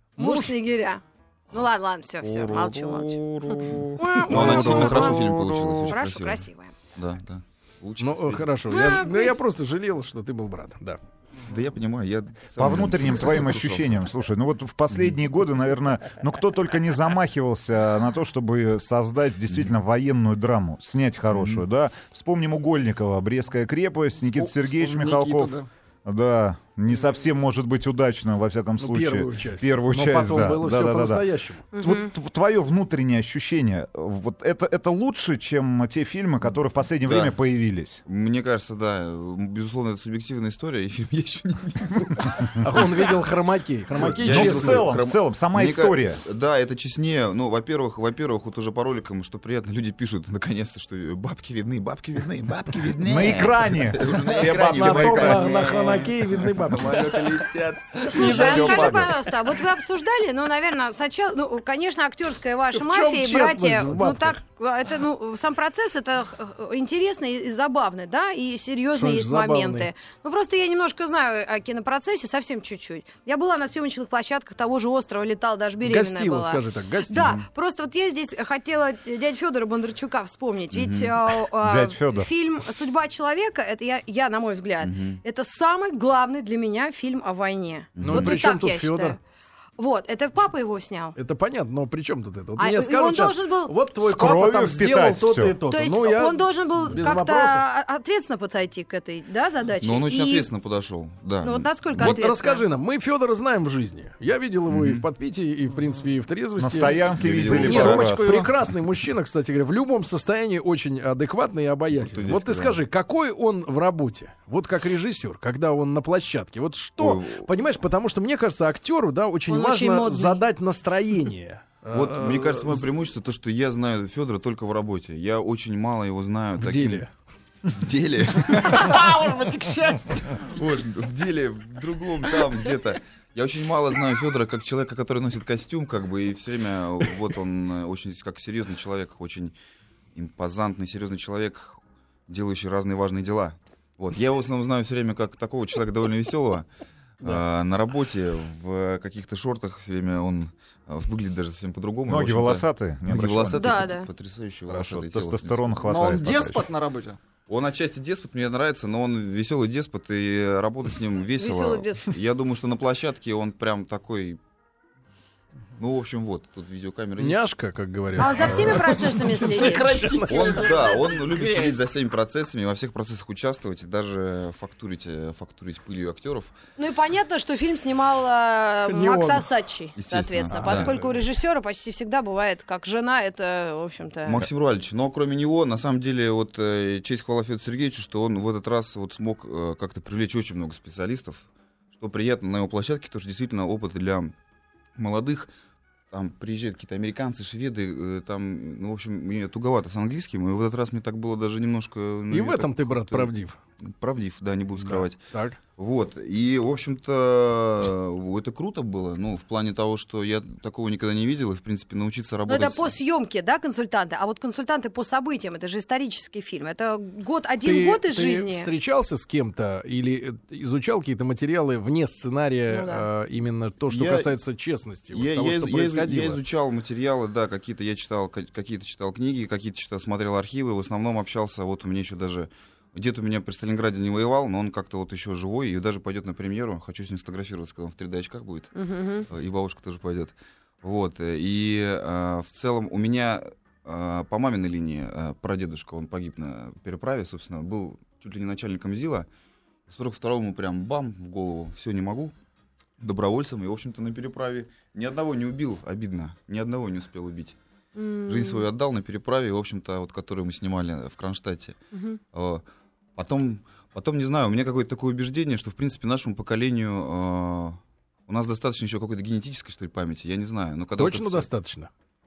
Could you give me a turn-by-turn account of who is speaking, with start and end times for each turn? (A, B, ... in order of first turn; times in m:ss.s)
0:00.2-0:00.5 A
0:00.2-0:06.7 B
0:02.2-0:08.5 C
0:04.3-0:05.1 A
0:04.4-0:04.7 D
0:08.0-0:11.0 A
0:08.7-0:09.3 B
0:11.4-0:14.1 C
0:12.6-0:38.0 D
0:14.9-0:15.2 C
0:21.3-0:21.6 C
0:24.4-0:25.7 E
0:28.8-0:31.6 A
0:31.7-0:32.1 B
0:36.5-0:37.3 C
0:38.0-0:43.1 C
0:42.6-0:44.9 A
0:43.9-0:59.2 C
0:44.0-0:46.2 D
0:53.0-0:56.1 D
0:54.5-0:57.3 A
0:58.0-1:29.2 B
0:58.1-0:59.2 D
1:02.7-1:04.4 A
1:08.9-1:09.9 A
1:15.8-1:17.4 A
1:20.7-1:21.1 C
1:21.6-1:22.3 D
1:24.8-1:25.2 C
1:28.0-1:28.4 C
1:28.0-1:29.2 A
1:29.8-1:31.2 B
1:31.2-1:37.6 A
1:32.6-1:33.7 B
1:34.0-1:35.6 D
1:35.7-1:40.5 B
1:39.8-1:42.2 C
1:41.4-1:42.6 B
1:42.0-2:02.9 A
1:44.7-1:45.0 C
1:46.6-1:48.5 D
1:47.1-1:48.3 C
1:51.9-1:52.8 C
1:57.0-1:57.5 C
1:59.5-2:00.4 B
2:01.9-2:07.0 C
2:06.6-2:07.1 A
2:07.7-2:09.0 C
2:08.5-2:10.4 E
2:10.2-2:19.5 C
2:20.1-2:26.7 C
2:27.2-2:36.2 C
2:32.1-2:33.9 D
2:33.5-2:34.1 B
2:34.7-2:36.7 D
2:35.8-2:37.2 E
2:37.5-2:44.4 C
2:41.4-2:42.1 B
2:45.8-2:47.4 C
2:47.2-2:50.6 A
2:48.2-2:50.0 B
2:48.2-2:49.0 C
2:49.4-2:51.9 E
2:50.3-2:56.5 C
2:56.8-3:04.5 B
2:58.8-2:59.4 A
3:00.0-3:01.0 C
3:00.5-3:01.1 A
3:04.2-3:14.3 C
3:15.0-3:15.5 C
3:16.1-3:23.3 C
3:22.3-3:23.6 A
3:23.8-3:25.2 C
3:24.8-3:25.6 A
3:25.8-3:32.9 C
3:32.5-3:38.7 B
3:37.6-3:46.4 A
3:42.7-3:43.1 B
3:43.9-3:44.3 C
3:45.1-3:58.7 C
3:58.7-3:59.3 B
3:59.3-4:09.3 C
4:09.9-4:12.3 C
4:13.0-4:17.6 C
4:17.9-4:18.7 B
4:18.3-4:21.8 C
4:21.9-4:22.2 B
4:22.3-4:22.6 C
4:23.2-4:31.5 C
4:31.0-4:31.9 A